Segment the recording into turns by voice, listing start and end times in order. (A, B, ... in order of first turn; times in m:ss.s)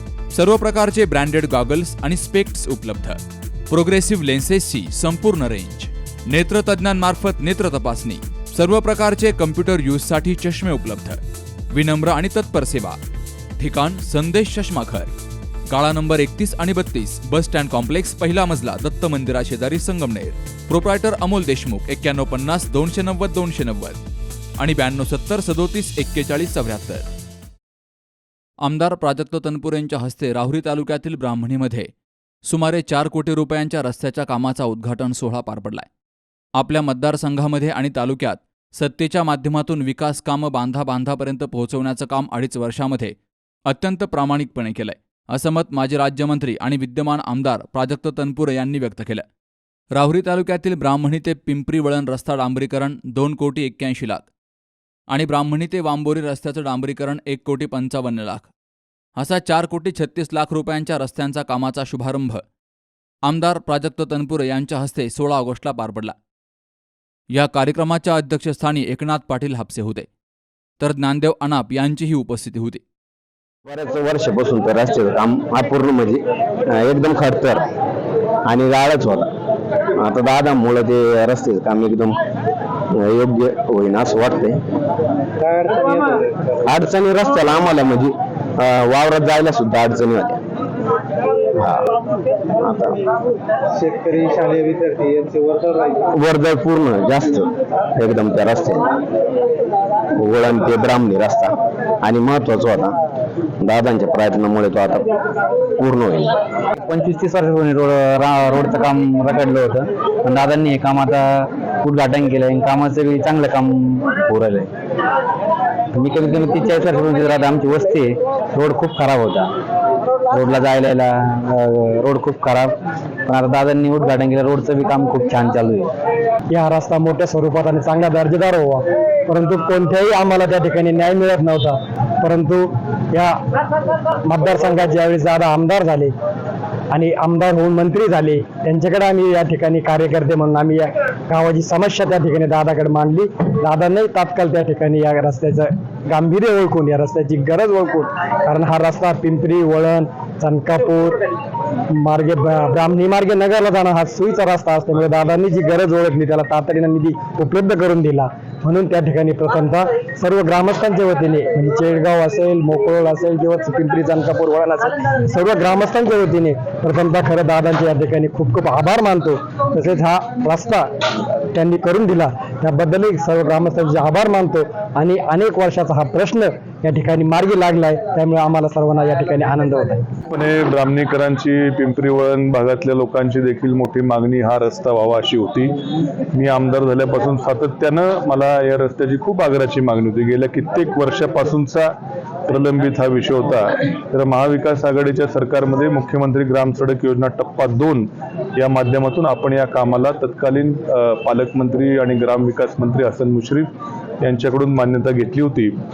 0:00.3-0:11.2 A
0:11.7-0:13.0 A
0:13.6-0:15.1 A
0:15.7-0:24.0 A
0:24.6-0:27.1 A
0:28.6-0:31.9 A
0:32.5-0:35.9 A
0:36.6-0:43.2 A
0:43.7-0:49.2 A
0:49.9-0:54.3 A
0:55.1-0:58.5 A
0:59.2-1:02.4 A
1:03.2-1:06.1 A
1:07.3-1:10.1 A
1:10.8-1:12.8 A
1:13.7-1:17.6 B
1:18.5-1:19.3 B
1:20.0-1:22.2 B
1:23.0-1:24.6 B
1:25.4-1:26.6 C
1:26.6-1:30.4 B
1:31.6-1:31.9 B
1:32.6-1:33.0 B
1:33.8-1:36.0 C
1:36.1-1:38.8 B
1:40.2-1:43.0 B
1:43.6-1:45.1 B
1:45.8-1:46.3 B
1:46.8-1:54.7 D
1:55.9-1:59.5 D
2:00.3-2:05.9 D
2:06.5-2:13.4 E
2:14.2-2:16.1 E
2:16.9-2:31.2 E
2:32.0-2:50.8 E
2:51.5-3:00.0 E
3:00.3-3:05.7 F
3:06.3-3:11.9 F
3:12.5-3:23.7 F
3:24.2-3:25.7 F